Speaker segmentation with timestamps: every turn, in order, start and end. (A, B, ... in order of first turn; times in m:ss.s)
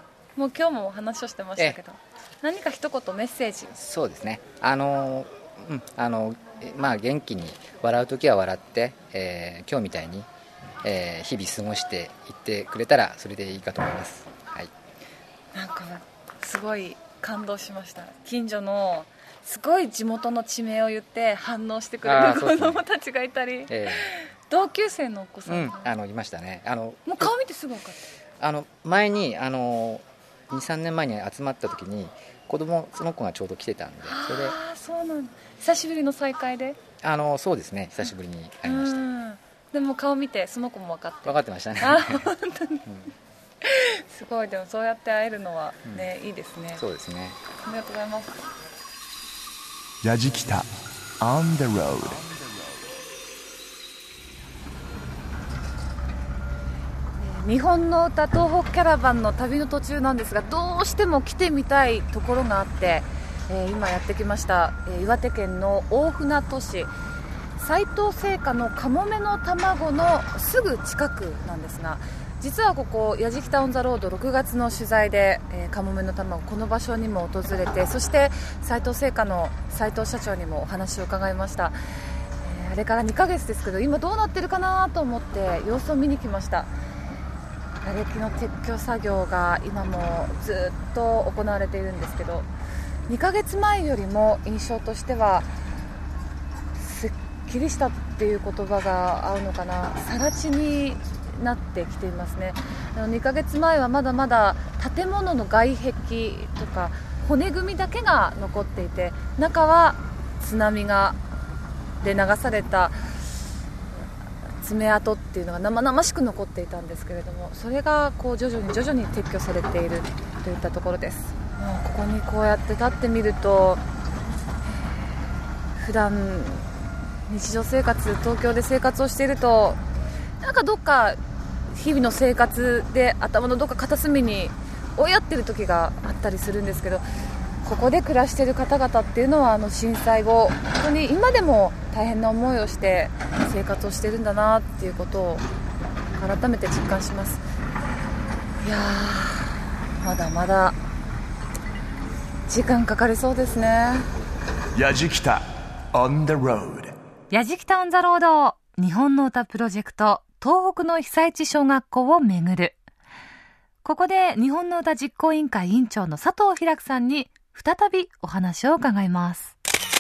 0:00.4-0:03.7 A
0:03.7-0:10.3 B
0:10.8-0:14.7 B
0:15.5-0:25.9 A
0:22.0-0:22.8 B
0:23.7-0:24.0 B
0:25.5-0:27.3 B
0:27.0-0:28.1 A
0:28.4-0:34.6 B
0:34.0-0:36.8 A
0:36.9-0:39.1 B
0:38.6-0:42.8 A
0:41.2-0:42.3 B
0:43.6-0:46.8 A
0:45.8-0:46.1 B
0:46.8-0:47.4 B
0:47.6-0:48.5 A
0:50.0-0:50.7 C
0:51.2-0:52.4 C
0:57.2-1:06.9 A
1:07.6-1:21.8 A
1:22.4-1:26.7 A
1:27.8-1:32.5 A
1:33.1-1:35.5 A
1:36.8-1:51.2 A
1:52.0-1:53.2 A
1:54.6-2:03.8 A
2:04.7-2:06.7 A
2:07.3-2:09.8 A
2:10.4-2:17.0 A
2:17.6-2:25.4 A
2:26.2-2:27.4 A
2:28.6-2:30.8 A
2:32.5-2:34.1 A
2:34.7-2:37.0 C
2:37.3-2:42.8 D
2:43.8-2:49.5 D